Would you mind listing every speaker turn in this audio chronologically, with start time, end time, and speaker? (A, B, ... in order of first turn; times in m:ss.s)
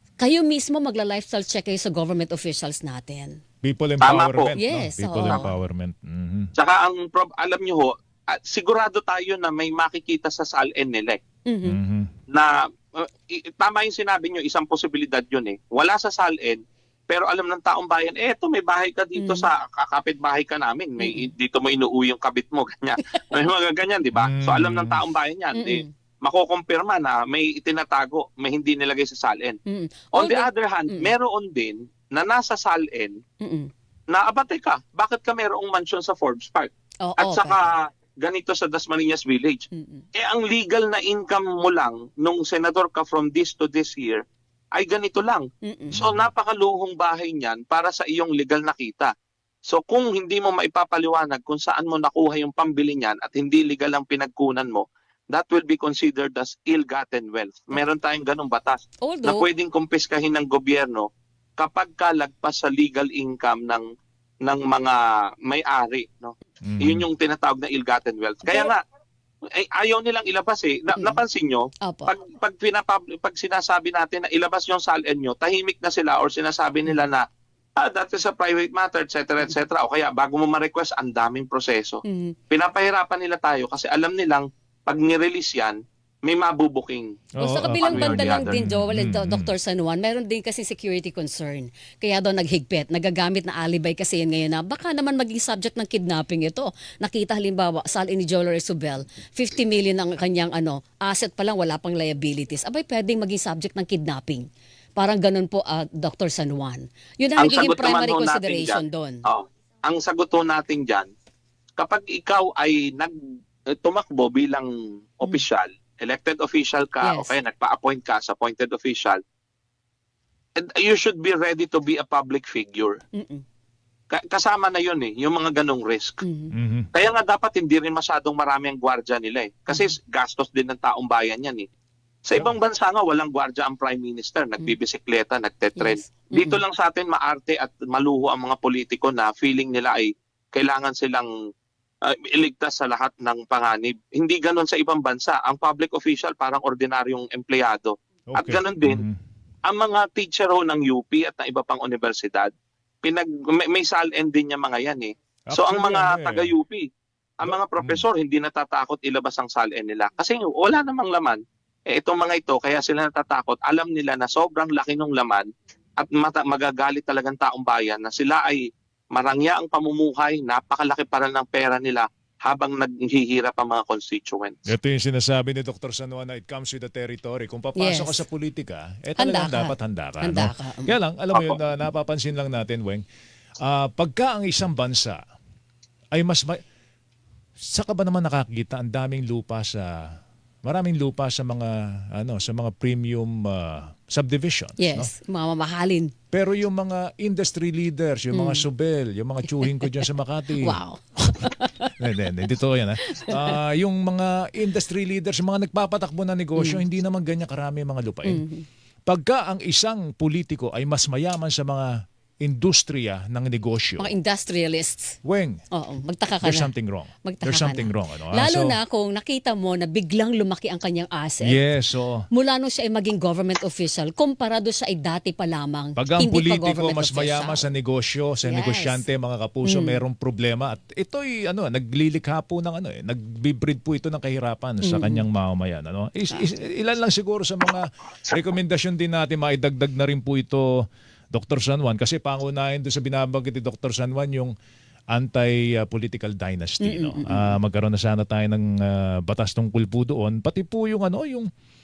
0:00.2-0:03.4 A
0:03.6-0:06.5 B
0:04.0-0:04.5 C
0:04.6-0:05.5 A
0:06.6-0:11.2 C
0:11.5-0:11.8 A
0:11.6-0:12.1 B
0:12.3-0:29.6 C
0:19.2-0:19.5 A
0:21.0-0:21.3 A
0:24.2-0:25.0 B
0:25.5-0:25.9 A
0:29.7-0:31.1 A
0:30.1-0:33.2 C
0:33.4-0:33.7 A
0:34.1-0:44.2 C
0:37.0-0:37.7 A
0:39.7-0:40.0 A
0:44.7-0:49.1 C
0:45.6-0:46.0 A
0:45.9-0:46.2 B
0:49.7-1:01.1 C
0:59.0-0:59.4 A
1:01.6-1:03.8 C
1:04.4-1:08.8 C
1:06.6-1:07.0 B
1:08.4-1:08.7 A
1:09.6-1:17.2 C
1:11.8-1:12.1 A
1:17.8-1:28.6 C
1:22.0-1:22.3 A
1:27.4-1:29.5 B
1:27.4-1:49.2 A
1:47.4-1:51.1 C
1:51.8-1:53.1 C
1:53.7-1:59.2 C
1:57.0-1:57.4 A
2:00.6-2:03.0 C
2:03.2-2:03.4 A
2:04.1-2:06.2 C
2:06.2-2:06.5 A
2:06.5-2:06.9 B
2:06.9-2:11.7 C
2:09.7-2:09.9 A
2:12.2-2:21.3 C
2:15.8-2:16.6 A
2:22.0-2:29.0 C
2:28.3-2:29.2 B
2:29.7-2:32.5 C
2:33.0-2:36.8 C
2:35.5-2:36.5 B
2:37.4-2:45.5 C
2:37.4-2:38.0 B
2:46.0-2:54.7 C
2:54.7-3:03.0 B
2:57.8-2:58.2 A
2:59.2-3:00.9 A
3:01.3-3:01.6 C
3:03.6-3:05.2 B
3:06.1-3:06.6 B
3:07.6-3:15.1 B
3:14.8-3:16.1 A
3:16.3-3:20.8 B
3:18.3-3:18.6 A
3:19.5-3:21.9 A
3:22.0-3:28.4 B
3:23.0-3:23.6 A
3:26.6-3:26.8 A
3:28.2-3:28.6 A
3:29.1-3:31.9 B
3:32.4-3:34.1 B
3:34.0-3:35.2 A
3:35.2-3:35.6 B
3:35.7-3:36.7 A
3:36.4-3:38.8 B
3:37.2-3:41.6 A
3:41.4-3:42.2 B
3:42.3-3:47.6 A
3:46.0-4:00.6 B
3:48.4-3:49.0 A
3:49.6-3:50.0 A
3:54.8-3:55.2 A
4:01.3-4:04.5 B
4:05.1-4:11.5 B
4:06.8-4:07.6 A